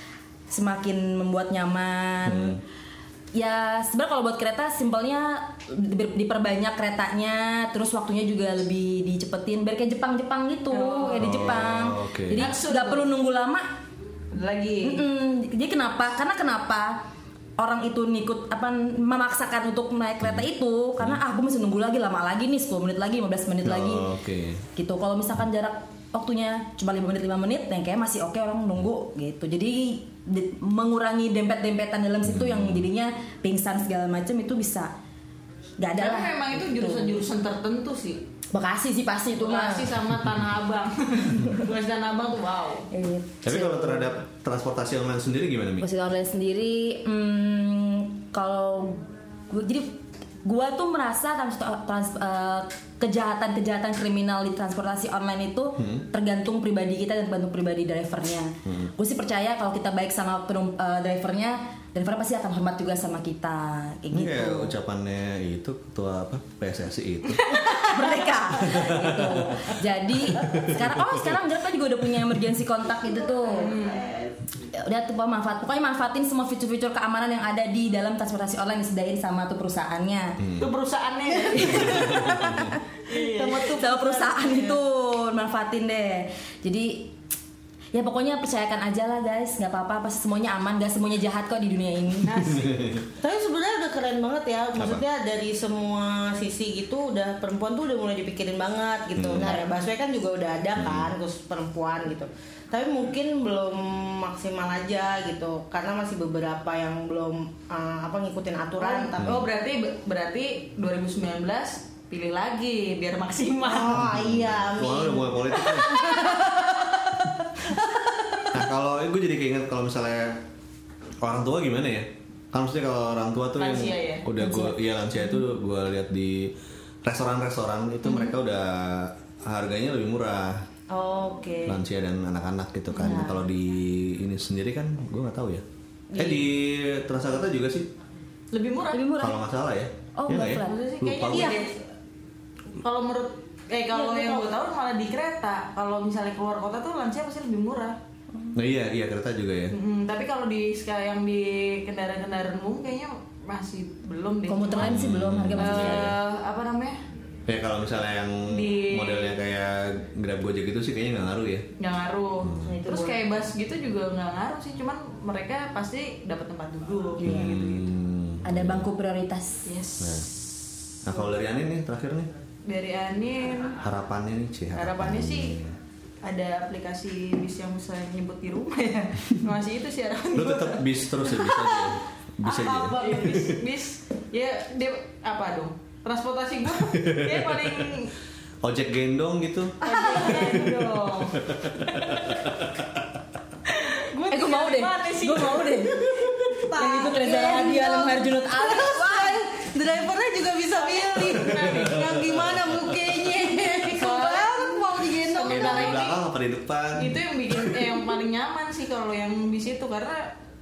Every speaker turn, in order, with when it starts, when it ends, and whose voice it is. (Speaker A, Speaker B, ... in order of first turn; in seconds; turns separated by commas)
Speaker A: 0.5-2.6, Speaker B: 2.2-2.6, Speaker A: 3.3-13.7, Speaker C: 10.7-11.5, Speaker B: 11.2-12.5, Speaker C: 12.4-13.1, Speaker C: 14.3-15.0, Speaker A: 14.8-24.1, Speaker B: 23.6-24.6, Speaker A: 24.7-34.9, Speaker B: 32.2-32.8, Speaker A: 35.8-37.2, Speaker C: 36.0-38.2, Speaker A: 38.5-39.9, Speaker C: 39.4-42.9, Speaker A: 42.9-44.1, Speaker B: 43.4-45.9, Speaker A: 45.8-64.7, Speaker B: 55.8-56.0, Speaker B: 58.6-58.9, Speaker B: 64.1-67.5, Speaker C: 67.4-68.1, Speaker A: 67.8-73.7, Speaker B: 68.6-69.6, Speaker B: 70.4-71.3, Speaker D: 73.4-74.2, Speaker C: 73.5-74.3, Speaker A: 74.6-80.4, Speaker B: 80.4-80.7, Speaker C: 80.6-82.5, Speaker D: 81.5-84.8, Speaker B: 81.6-82.8, Speaker C: 83.1-83.7, Speaker A: 83.6-87.1, Speaker A: 87.9-92.4, Speaker C: 92.2-92.8, Speaker B: 92.5-93.0, Speaker D: 93.2-109.3, Speaker B: 94.8-95.0, Speaker B: 99.1-99.6, Speaker B: 100.8-101.1, Speaker C: 108.8-114.1, Speaker B: 109.2-109.5, Speaker D: 113.6-118.6, Speaker B: 113.9-116.0, Speaker B: 118.5-120.4, Speaker B: 121.2-126.5, Speaker C: 123.6-124.2, Speaker A: 124.4-124.8, Speaker B: 127.0-130.6, Speaker D: 130.9-131.8, Speaker B: 131.7-135.6, Speaker D: 133.0-133.4, Speaker A: 133.0-133.3, Speaker D: 136.1-136.5, Speaker B: 136.2-137.9, Speaker C: 138.5-139.1, Speaker A: 138.9-139.4, Speaker B: 139.2-141.6, Speaker A: 140.2-140.8, Speaker C: 140.6-141.8, Speaker D: 141.3-141.7, Speaker C: 142.8-148.0, Speaker D: 143.9-144.5, Speaker B: 148.5-149.7, Speaker C: 149.7-154.9, Speaker A: 154.5-156.1, Speaker B: 154.7-156.1, Speaker C: 155.6-157.0, Speaker B: 157.5-161.7, Speaker C: 158.4-159.4, Speaker C: 161.8-167.9, Speaker B: 162.4-162.8, Speaker D: 162.6-163.2, Speaker A: 167.2-167.5, Speaker B: 167.2-168.9, Speaker A: 168.4-169.7, Speaker C: 169.7-171.4, Speaker B: 170.0-170.3, Speaker B: 171.0-172.3, Speaker C: 172.7-173.8, Speaker B: 173.8-175.7, Speaker C: 174.7-175.6, Speaker C: 176.2-188.1, Speaker B: 180.3-183.6, Speaker B: 186.9-187.7, Speaker B: 188.6-192.6, Speaker D: 189.8-190.6, Speaker C: 189.8-192.5, Speaker C: 193.7-196.0, Speaker A: 194.3-199.4, Speaker D: 195.8-206.0, Speaker C: 200.8-202.1, Speaker B: 201.5-202.9, Speaker C: 203.9-206.2, Speaker B: 205.4-207.2, Speaker C: 206.9-210.3